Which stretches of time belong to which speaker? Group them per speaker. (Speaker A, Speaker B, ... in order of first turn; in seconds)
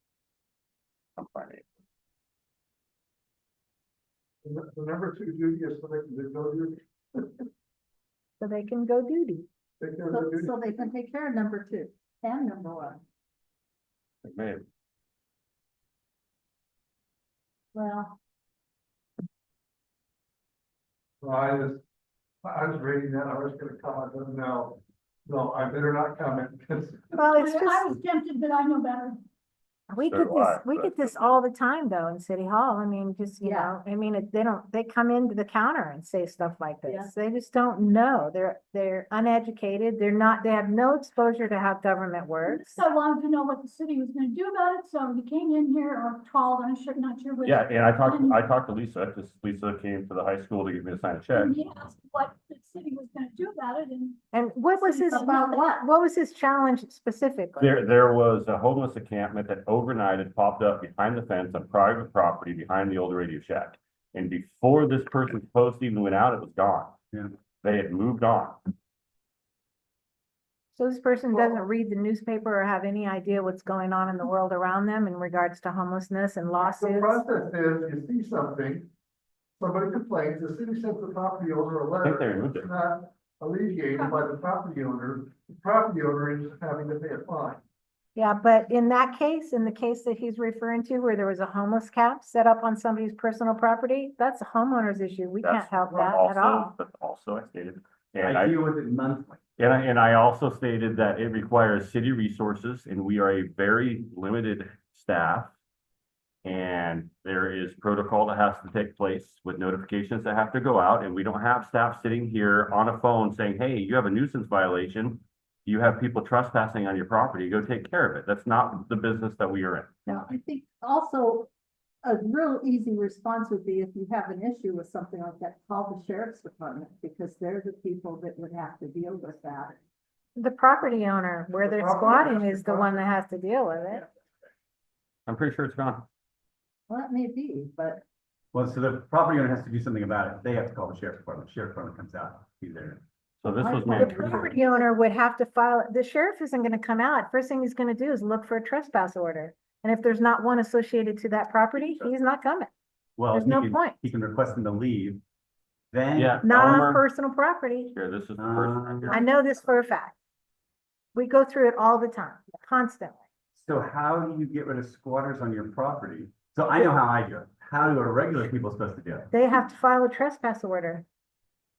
Speaker A: 1.2-1.6, 14.2-14.6, 30.0-31.1, 47.4-51.5, 57.6-67.0, 67.6-68.6, 82.0-82.7, 95.4-98.6, 99.6-105.5, 106.4-119.9, 135.3-136.0, 143.4-144.5, 156.2-157.0, 157.9-159.2
Speaker B: 4.4-7.5, 9.8-10.5, 21.2-21.8, 22.4-27.2, 71.3-71.6, 76.6-78.9, 79.6-87.6, 131.6-133.0
Speaker C: 8.4-9.5, 27.2-27.9, 29.9-42.8, 54.3-57.7, 70.7-77.2, 88.2-96.7, 130.3-134.1, 144.0-152.7, 153.3-154.0, 156.4-157.9, 159.1-160.2, 161.1-163.2, 169.3-171.0
Speaker D: 10.0-13.0, 17.7-18.2, 33.4-33.7, 36.9-37.1, 54.9-55.9, 120.1-121.5, 122.0-129.8, 136.9-138.0, 143.4-144.9
Speaker E: 27.2-29.2, 42.4-48.4, 51.3-54.2, 54.8-55.5
Speaker F: 98.2-99.4, 138.5-143.0, 153.2-155.2, 155.9-156.9, 158.4-159.2, 163.5-169.3